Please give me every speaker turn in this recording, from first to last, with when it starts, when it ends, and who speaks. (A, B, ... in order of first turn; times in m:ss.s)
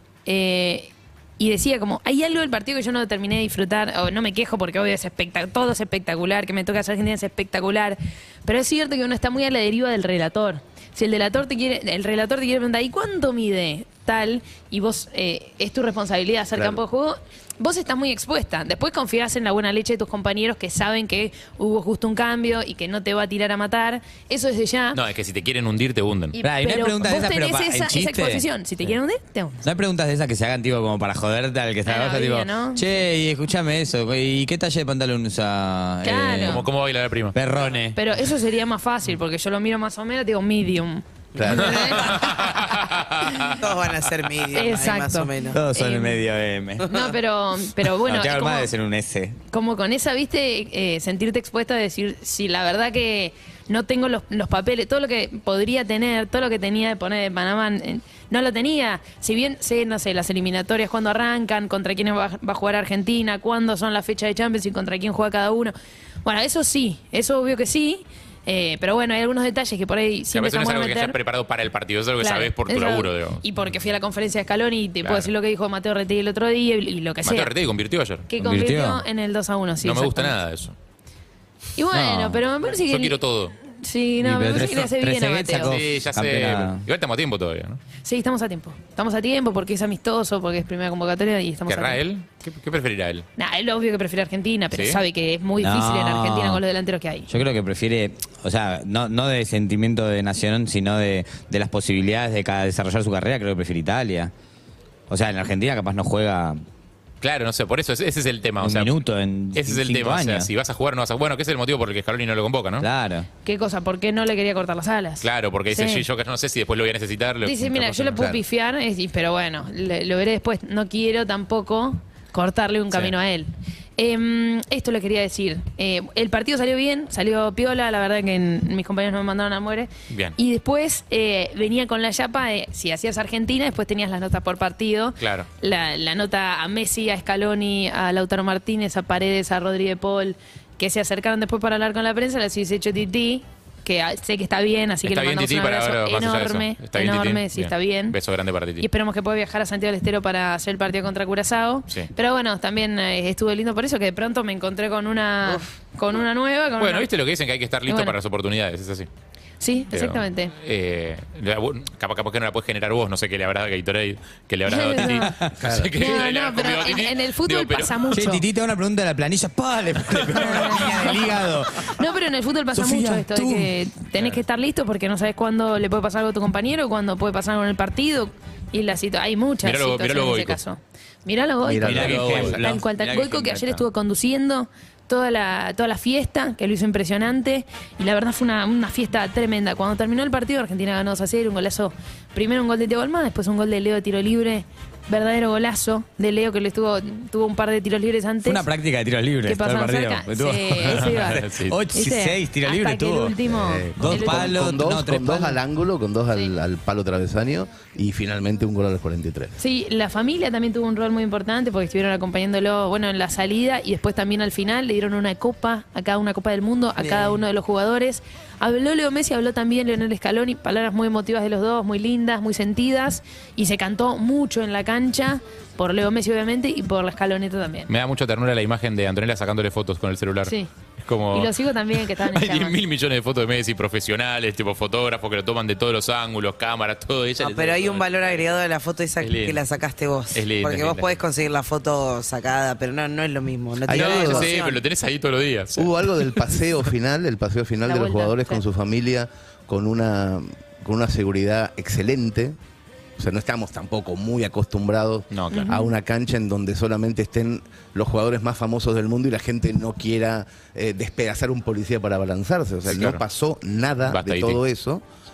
0:00.3-0:25.0 A
0:16.5-0:16.8 B
0:24.9-0:26.4 C
0:26.3-0:29.6 A
0:26.4-0:28.4 D
0:29.6-0:36.7 D
0:31.9-0:32.8 A
0:36.0-0:36.6 A
0:36.4-0:37.4 C
0:37.3-0:38.0 D
0:38.0-0:42.4 A
0:41.4-0:41.9 B
0:41.5-0:42.6 E
0:41.5-0:43.6 C
0:43.3-0:43.6 A
0:43.6-0:45.6 E
0:44.5-0:46.2 A
0:45.5-0:46.9 D
0:46.9-0:48.7 A
0:48.0-0:49.4 D
0:49.5-1:05.7 A
1:06.2-1:11.2 A
1:10.3-1:13.4 C
1:12.2-1:17.5 A
1:15.0-1:15.3 C
1:17.2-1:18.3 C
1:18.3-1:20.4 A
1:18.4-1:19.0 D
1:19.8-1:20.8 C
1:21.8-1:23.2 A
1:21.9-1:22.4 D
1:22.7-1:23.6 C
1:23.7-1:25.8 A
1:24.2-1:26.8 D
1:25.7-1:27.8 C
1:28.0-1:32.0 A
1:31.7-1:33.3 C
1:33.4-1:37.3 A
1:34.7-1:35.0 C
1:35.6-1:36.6 D
1:37.3-1:44.3 D
1:45.1-1:46.6 D
1:47.2-1:48.9 C
1:48.6-1:50.5 D
1:49.6-1:52.9 C
1:52.8-1:53.3 D
1:53.4-1:56.0 A
1:55.2-1:58.3 C
1:57.4-2:28.2 A
1:58.1-1:58.4 B
2:10.1-2:10.4 C
2:15.2-2:15.5 C
2:25.0-2:28.9 C
2:28.8-2:37.1 A
2:36.8-2:39.1 C
2:37.9-2:38.2 A
2:39.6-2:40.5 A
2:39.9-2:48.0 C
2:44.7-2:45.3 A
2:45.2-2:45.5 D
2:45.6-2:46.0 B
2:46.0-2:48.4 A
2:48.1-2:51.9 D
2:50.3-3:18.7 A
2:52.7-2:53.7 D
2:59.6-3:00.6 C
3:01.6-3:02.6 B
3:01.8-3:02.6 C
3:01.8-3:03.8 D
3:18.4-3:23.4 D
3:19.4-3:24.4 A
3:20.9-3:21.8 C
3:23.5-3:29.6 B
3:24.0-3:25.6 D
3:29.6-3:47.9 A
3:37.0-3:37.4 E
3:47.9-3:58.6 C
3:51.3-3:52.8 A
3:57.4-4:04.8 E
3:59.2-3:59.6 C
4:00.3-4:01.2 C
4:03.9-4:04.5 B
4:03.9-4:05.9 C
4:05.8-4:12.6 B
4:07.8-4:08.6 A
4:13.2-4:25.0 B
4:15.3-4:15.7 C
4:15.5-4:15.9 A
4:22.9-4:23.2 C
4:24.1-4:24.6 C